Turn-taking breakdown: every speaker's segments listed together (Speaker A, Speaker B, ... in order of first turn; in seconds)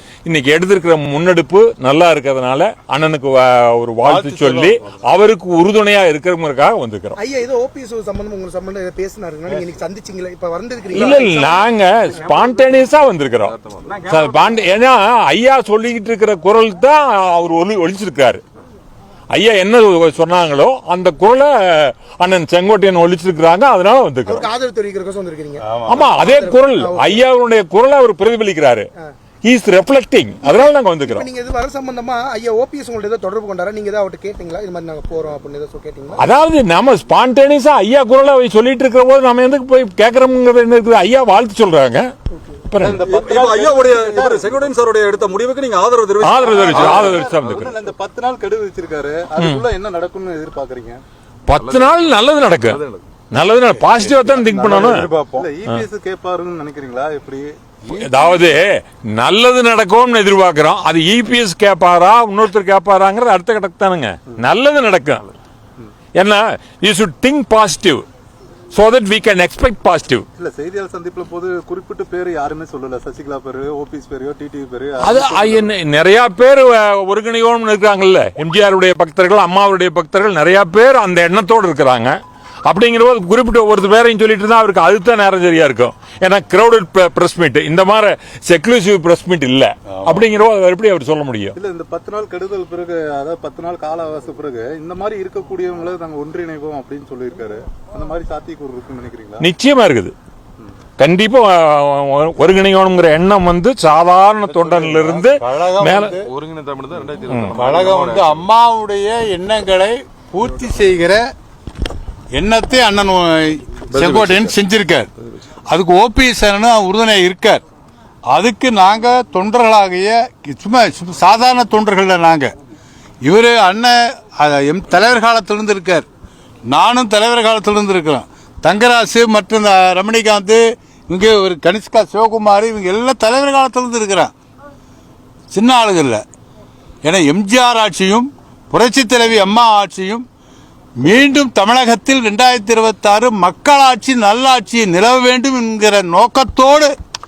Speaker A: 0.2-7.2, 10.9-18.4, 19.3-24.5, 25.9-28.9, 29.4-31.2, 36.2-42.1, 42.7-43.0, 46.2-47.7, 49.4-49.6, 51.5-55.1, 57.9-65.3, 66.2-68.0, 68.7-70.2, 75.0-91.5, 99.4-100.1, 101.0-106.2, 107.3-107.5
Speaker B: 4.0-4.8, 25.6-26.1, 54.5-55.1, 90.0-90.2, 104.5-106.3, 107.5-111.2, 112.3-115.1, 115.7-117.6, 118.3-122.5, 123.2-126.0, 126.7-134.3, 135.5-136.2, 137.0-140.2, 141.0-146.9
Speaker C: 7.2-11.6, 24.2-27.2, 30.4-36.2
Speaker D: 42.8-44.5, 46.4-51.0, 55.3-57.6, 70.4-75.7, 91.5-99.4
Speaker E: 42.8-47.3, 51.5-52.0, 52.7-53.0, 54.2-55.4, 106.2-108.4, 114.0-114.4